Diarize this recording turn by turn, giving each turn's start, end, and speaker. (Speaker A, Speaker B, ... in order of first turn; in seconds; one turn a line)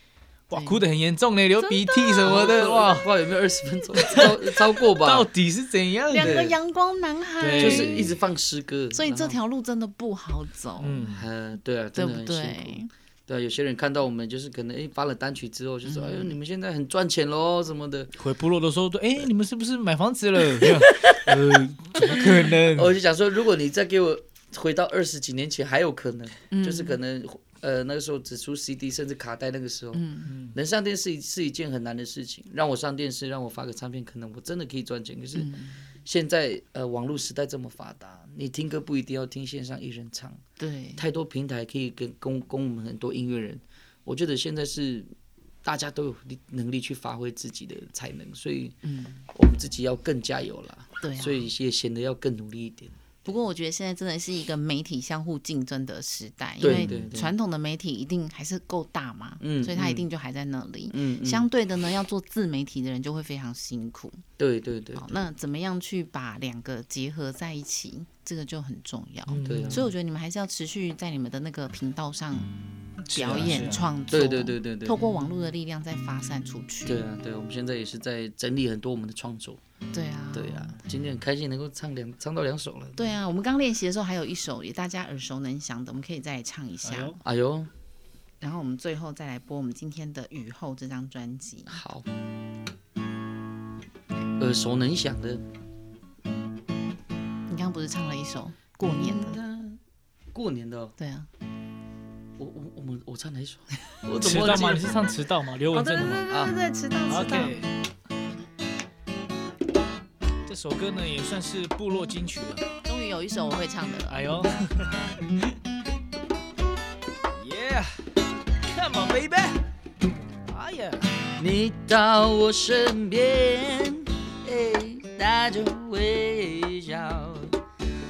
Speaker A: 0.5-3.1
Speaker B: 0.5-0.8
Speaker B: 1.6-2.2
Speaker C: 2.2-5.3
Speaker A: 3.9-6.4
Speaker B: 6.1-8.1
Speaker C: 6.2-6.6
Speaker A: 7.4-8.1
Speaker C: 7.6-9.4
Speaker B: 8.9-11.1
Speaker A: 10.8-11.3
Speaker C: 11.1-18.1
Speaker B: 11.9-12.9
Speaker B: 15.8-16.3
Speaker A: 18.2-22.9
Speaker C: 21.0-21.3
Speaker C: 22.0-35.5
Speaker B: 26.5-27.0
Speaker B: 29.9-30.3
Speaker A: 30.3-30.6
Speaker B: 35.4-35.8
Speaker C: 36.0-40.4
Speaker B: 40.6-41.0
Speaker C: 41.0-45.1
Speaker C: 45.6-48.8
Speaker B: 48.8-49.2
Speaker C: 49.3-53.0
Speaker B: 51.0-51.5
Speaker B: 53.2-64.2
Speaker C: 56.6-57.3
Speaker A: 56.6-57.1
Speaker C: 59.4-60.1
Speaker C: 60.9-61.5
Speaker C: 64.4-65.0
Speaker B: 65.0-72.5
Speaker A: 69.3-69.9
Speaker C: 69.4-69.9
Speaker A: 73.1-73.9
Speaker B: 73.1-77.0
Speaker C: 74.1-75.0
Speaker C: 76.8-79.6
Speaker B: 79.9-80.8
Speaker C: 80.3-83.2
Speaker B: 83.0-87.2
Speaker A: 86.8-87.2
Speaker C: 87.2-87.7
Speaker B: 88.4-91.8
Speaker C: 91.7-92.1
Speaker C: 94.4-95.4
Speaker B: 97.5-99.4
Speaker C: 98.8-99.8
Speaker C: 100.3-101.0
Speaker B: 101.0-101.3
Speaker C: 102.4-104.9
Speaker A: 104.2-106.2
Speaker B: 105.7-107.5
Speaker C: 106.3-106.5
Speaker A: 107.1-107.7
Speaker A: 110.5-112.6
Speaker B: 112.8-114.2
Speaker A: 114.1-115.2
Speaker A: 117.3-119.6
Speaker A: 120.5-121.0
Speaker C: 121.4-127.5